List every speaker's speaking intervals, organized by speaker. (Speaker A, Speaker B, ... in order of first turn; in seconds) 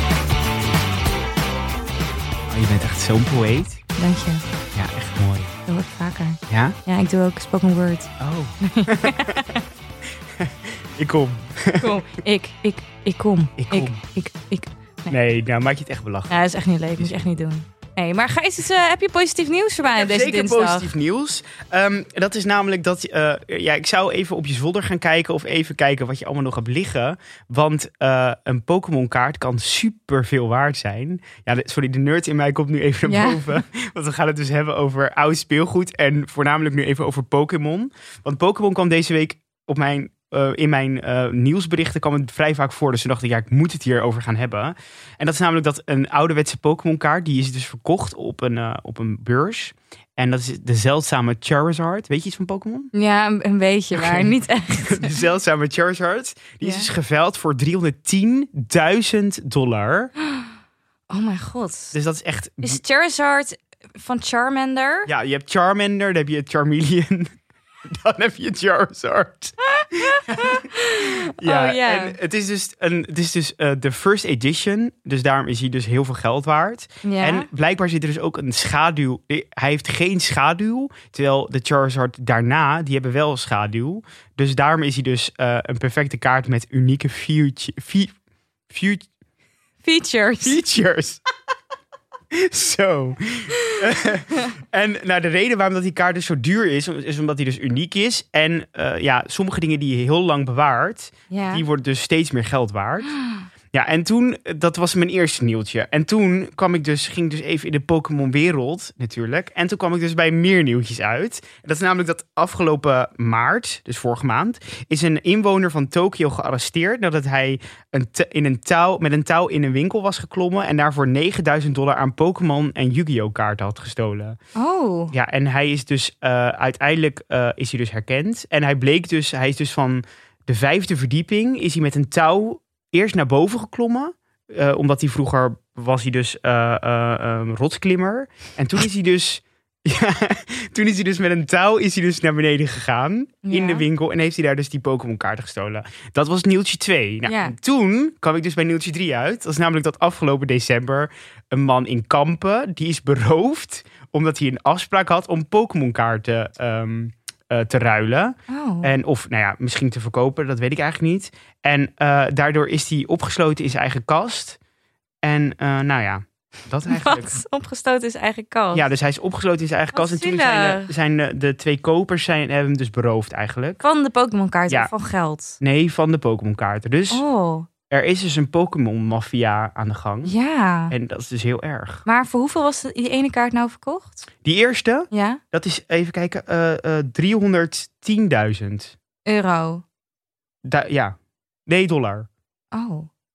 Speaker A: 2.5-3.8, 4.7-5.5, 6.5-6.8, 8.2-9.5, 10.4-12.0, 13.6-14.0, 15.1-16.4, 17.0-17.2, 19.8-52.9, 53.9-54.3, 54.9-60.1, 61.9-62.8, 65.0-67.3, 67.9-88.1, 88.7-89.1, 90.4-91.2, 92.3-103.1, 103.7-124.3, 125.1-164.6, 165.2-167.4, 168.7-173.8, 175.6-177.2, 177.9-180.3, 180.9-182.0, 184.4-188.9, 190.6-191.1, 191.7-192.3
Speaker B: 4.0-4.4, 5.7-8.1, 8.6-9.6, 11.8-15.1, 16.3-20.9, 33.0-33.6, 52.9-55.2, 56.6-56.9, 61.1-62.0, 62.6-65.1, 69.7-72.2, 77.0-77.5, 89.8-90.6, 101.3-101.6, 124.5-125.1, 143.4-143.8, 147.2-147.5, 158.5-158.9, 166.9-168.8, 169.9-170.9, 173.8-175.6, 177.1-177.7, 180.2-180.9, 182.1-184.2, 185.1-185.4, 189.2-189.8, 192.7-193.1